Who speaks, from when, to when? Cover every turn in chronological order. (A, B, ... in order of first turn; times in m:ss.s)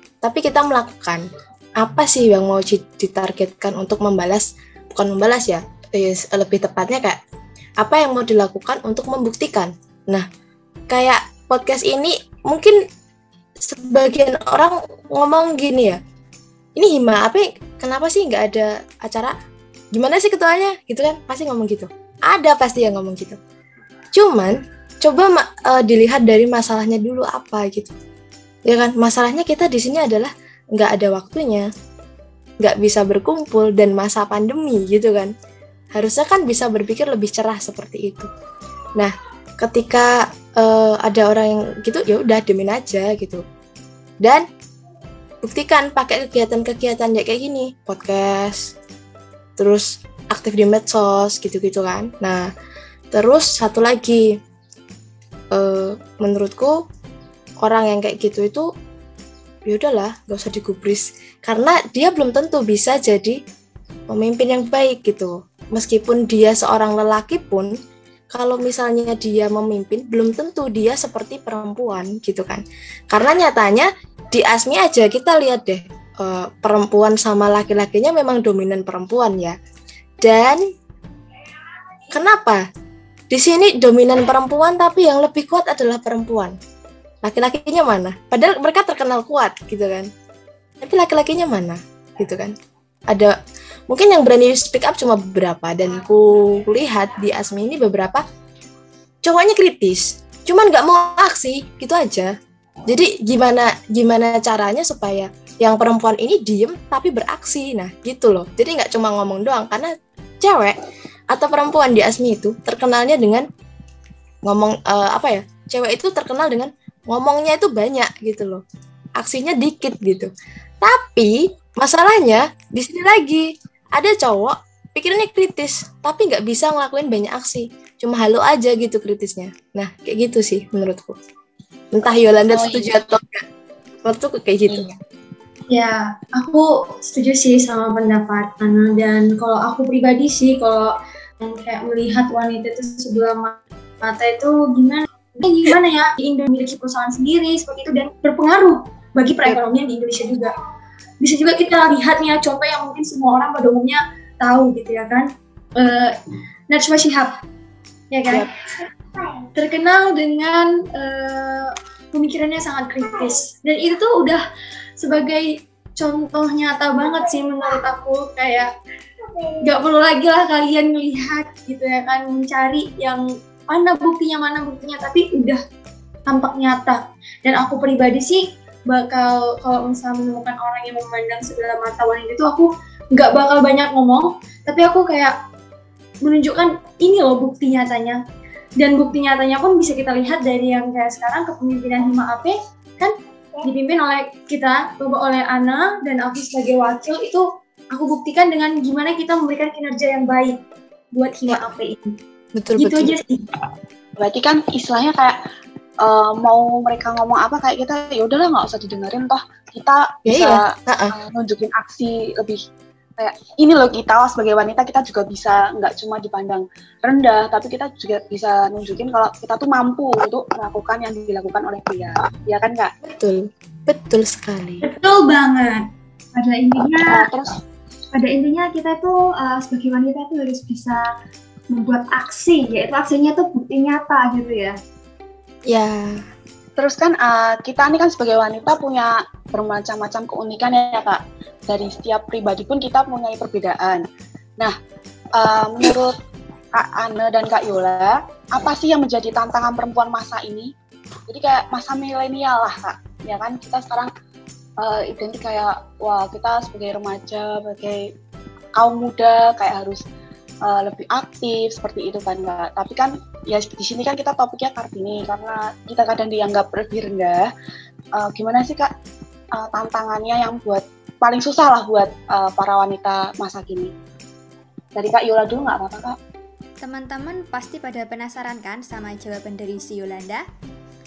0:00.2-0:01.2 A
0:01.8-0:07.2 A
0:07.8-0:10.2 A
0:10.9-0:12.8 A
0:13.6-0:16.0 A
0:16.8-0:19.3 A
0:19.9-0:23.4 A
0:24.1-0:27.9 A
0:28.6-0:31.7 A
0:32.6-0:35.3 A
0:35.9-0:38.3 A
0:39.0-0:43.4 A
0:45.4-0:48.7 A
0:49.6-0:52.5 A
0:53.1-0:54.3 A
0:55.5-0:56.8 A
0:57.6-0:58.7 A
0:59.6-1:03.4 A
1:04.1-1:07.7 A
1:08.3-1:19.5 A
1:20.2-1:20.6 A
1:22.1-1:22.6 A
1:23.3-1:26.6 A
1:27.2-1:30.1 A
1:30.8-1:32.5 A
1:33.9-1:38.2 A
1:39.2-1:42.3 A
1:42.9-1:50.8 A
1:51.3-1:53.4 A
1:54.4-1:58.6 A
1:59.2-2:00.3 A
2:00.8-2:11.1 A
2:11.9-2:13.4 A
2:12.5-2:12.9 B
2:14.0-2:14.9 A
2:15.7-2:30.5 C
2:31.2-2:36.1 C
2:36.7-2:37.3 C
2:38.1-2:38.5 C
2:39.5-2:44.4 C
2:45.0-2:45.4 C
2:46.0-2:48.7 C
2:49.6-2:55.6 C
2:56.3-3:05.3 C
3:06.2-3:08.2 C
3:08.8-3:13.1 C
3:13.6-3:20.6 C
3:21.1-3:22.2 C
3:22.6-3:23.2 A
3:22.8-3:23.4 C
3:24.2-3:25.3 B
3:26.0-3:32.6 B
3:30.2-3:31.1 A
3:33.2-3:42.9 B
3:43.0-3:44.8 A
3:44.8-3:45.8 C
3:46.3-3:47.2 D
3:47.0-3:47.5 B
3:48.1-3:51.1 D
3:51.7-3:54.8 D
3:55.7-3:56.2 A
3:56.8-4:04.0 B
4:05.4-4:06.1 B
4:06.7-4:10.7 B
4:11.3-4:14.1 B
4:14.8-4:18.0 B
4:18.8-4:20.0 B
4:20.6-4:27.4 B
4:28.2-4:28.9 B
4:29.6-4:33.9 B
4:34.9-4:36.2 B
4:36.8-4:40.5 E